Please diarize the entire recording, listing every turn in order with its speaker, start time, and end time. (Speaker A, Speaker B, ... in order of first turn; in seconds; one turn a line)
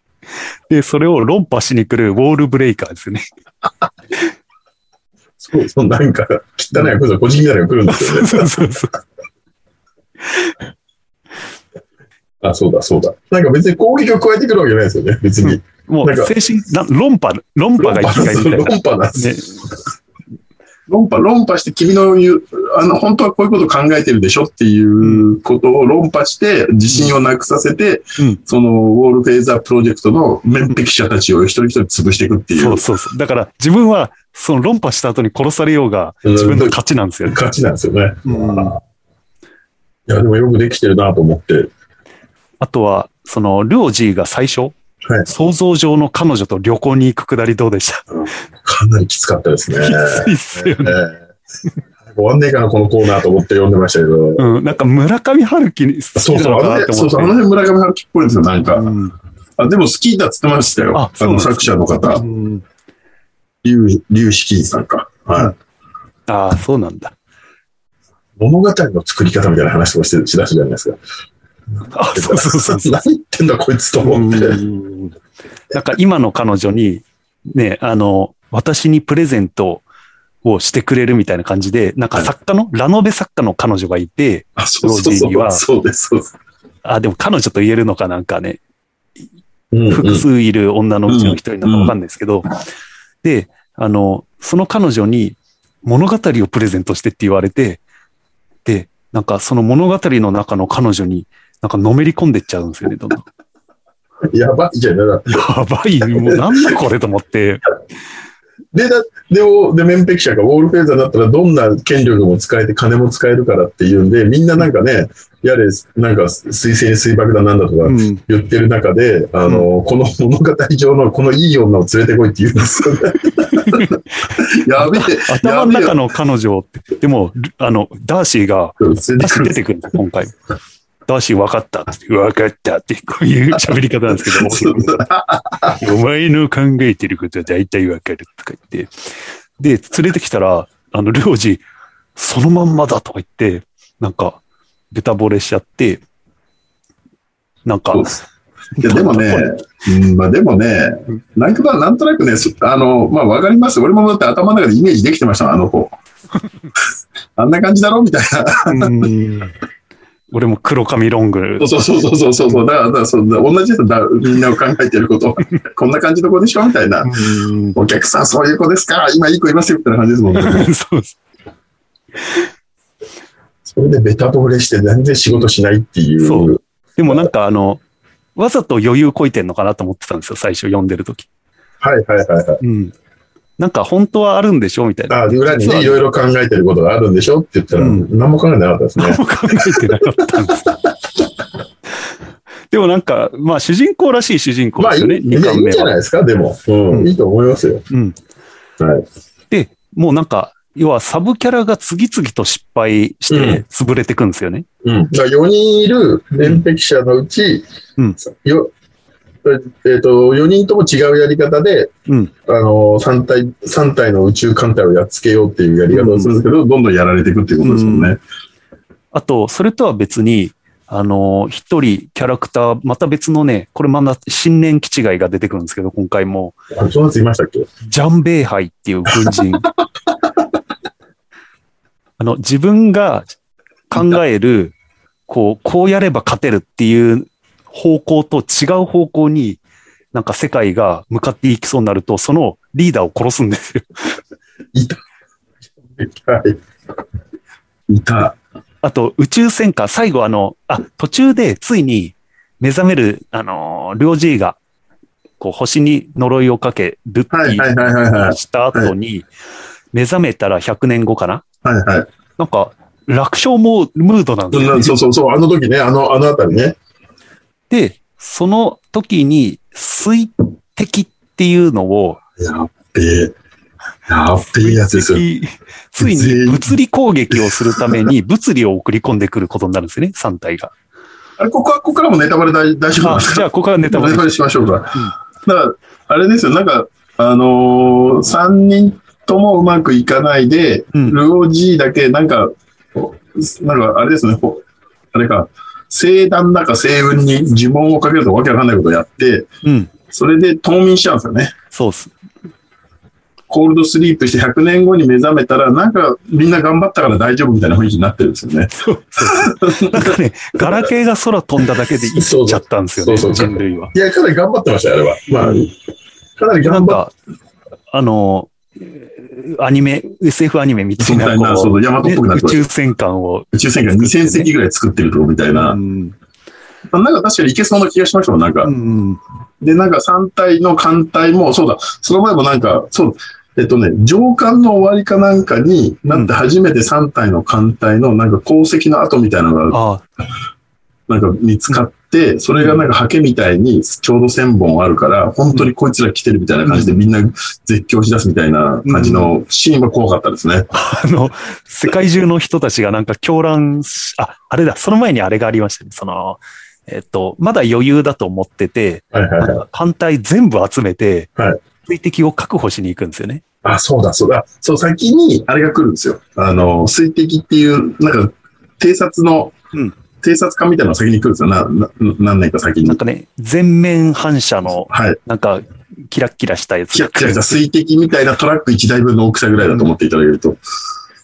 Speaker A: 0.7-3.2
Speaker B: 5.4-8.7
Speaker A: 7.9-8.9
Speaker B: 12.4-16.3
Speaker A: 15.4-19.6
Speaker B: 17.8-19.4
Speaker B: 20.9-32.8
Speaker A: 25.0-25.3
Speaker A: 32.5-37.4
Speaker B: 36.2-36.8
Speaker B: 37.3-38.8
Speaker A: 38.2-38.7
Speaker B: 40.1-41.7
Speaker A: 42.6-44.7
Speaker A: 45.3-48.0
Speaker B: 48.1-51.2
Speaker A: 49.7-51.0
Speaker B: 52.0-54.6
Speaker A: 54.4-57.3
Speaker B: 56.1-58.9
Speaker A: 58.7-59.1
Speaker B: 59.6-62.2
Speaker A: 60.9-62.6
Speaker B: 63.6-65.5
Speaker A: 66.3-67.1
Speaker B: 68.4-71.0
Speaker A: 71.9-73.0
Speaker B: 72.1-74.6
Speaker A: 74.0-75.1
Speaker A: 75.7-79.8
Speaker A: 80.4-85.6
Speaker B: 84.6-86.3
Speaker A: 86.8-88.6
Speaker B: 89.7-90.2
Speaker A: 89.9-92.6
Speaker B: 91.1-91.9
Speaker A: 93.2-97.8
Speaker A: 98.7-103.2
Speaker B: 104.3-105.4
Speaker A: 105.3-107.7
Speaker B: 106.1-106.7
Speaker B: 108.7-126.0
Speaker A: 117.8-118.2
Speaker A: 123.5-124.0
Speaker A: 124.8-130.3
Speaker B: 128.8-129.6
Speaker A: 131.1-135.0
Speaker B: 134.1-135.9
Speaker A: 135.7-138.9
Speaker A: 139.6-141.6
Speaker A: 142.2-144.4
Speaker A: 144.9-146.0
Speaker A: 147.6-148.2
Speaker A: 148.8-149.4
Speaker B: 148.8-155.9
Speaker B: 157.3-159.1
Speaker A: 158.7-159.5
Speaker A: 160.3-161.7
Speaker B: 161.6-170.7
Speaker A: 167.0-167.8
Speaker A: 170.3-171.2
Speaker A: 172.2-172.5
Speaker B: 173.6-177.3
Speaker A: 176.2-177.8
Speaker A: 178.3-181.3
Speaker B: 181.8-182.6
Speaker A: 182.6-182.9
Speaker A: 183.6-186.0
Speaker B: 185.1-190.7
Speaker A: 187.7-188.1
Speaker A: 189.0-190.7
Speaker A: 192.7-195.9
Speaker B: 194.8-197.8
Speaker A: 197.9-198.2
Speaker B: 198.8-199.0
Speaker A: 199.5-204.6
Speaker B: 203.3-203.6
Speaker B: 204.8-207.7
Speaker B: 208.2-208.7
Speaker B: 209.4-211.9
Speaker B: 212.4-218.2
Speaker A: 215.9-216.3
Speaker A: 217.6-218.1
Speaker A: 219.1-226.6
Speaker B: 226.7-227.7
Speaker A: 227.8-229.7
Speaker B: 229.1-229.4
Speaker A: 232.2-233.3
Speaker A: 233.9-234.7
Speaker B: 233.9-234.2
Speaker A: 235.3-239.6
Speaker A: 240.1-244.2
Speaker B: 244.7-245.0
Speaker B: 245.9-246.6
Speaker B: 247.9-248.4
Speaker A: 248.8-254.6
Speaker A: 255.4-259.3
Speaker B: 257.3-258.9
Speaker A: 259.9-261.4
Speaker B: 261.6-262.1
Speaker A: 262.4-264.9
Speaker B: 264.5-266.8
Speaker A: 267.7-272.2
Speaker B: 272.4-273.3
Speaker B: 274.1-275.2
Speaker A: 274.6-280.7
Speaker B: 276.0-276.7
Speaker B: 277.3-278.1
Speaker B: 281.4-299.5
Speaker A: 283.0-284.4
Speaker A: 299.6-299.9
Speaker B: 300.1-301.5
Speaker A: 301.7-302.1
Speaker B: 303.5-310.9
Speaker A: 308.8-313.9
Speaker B: 312.1-315.7
Speaker B: 316.4-317.0
Speaker A: 316.6-317.1
Speaker A: 317.9-324.5
Speaker B: 321.0-322.6
Speaker B: 323.5-325.8
Speaker A: 325.6-326.1
Speaker B: 326.9-328.7
Speaker A: 328.6-329.2
Speaker B: 329.6-339.8
Speaker A: 339.7-340.0
Speaker B: 341.1-350.7
Speaker A: 342.6-342.8
Speaker A: 346.6-347.0
Speaker A: 348.9-349.3
Speaker A: 350.7-361.3
Speaker B: 359.1-359.6
Speaker A: 361.9-363.4
Speaker B: 363.6-369.6
Speaker B: 370.2-373.0
Speaker A: 372.8-377.6
Speaker B: 374.9-375.2
Speaker B: 376.9-380.6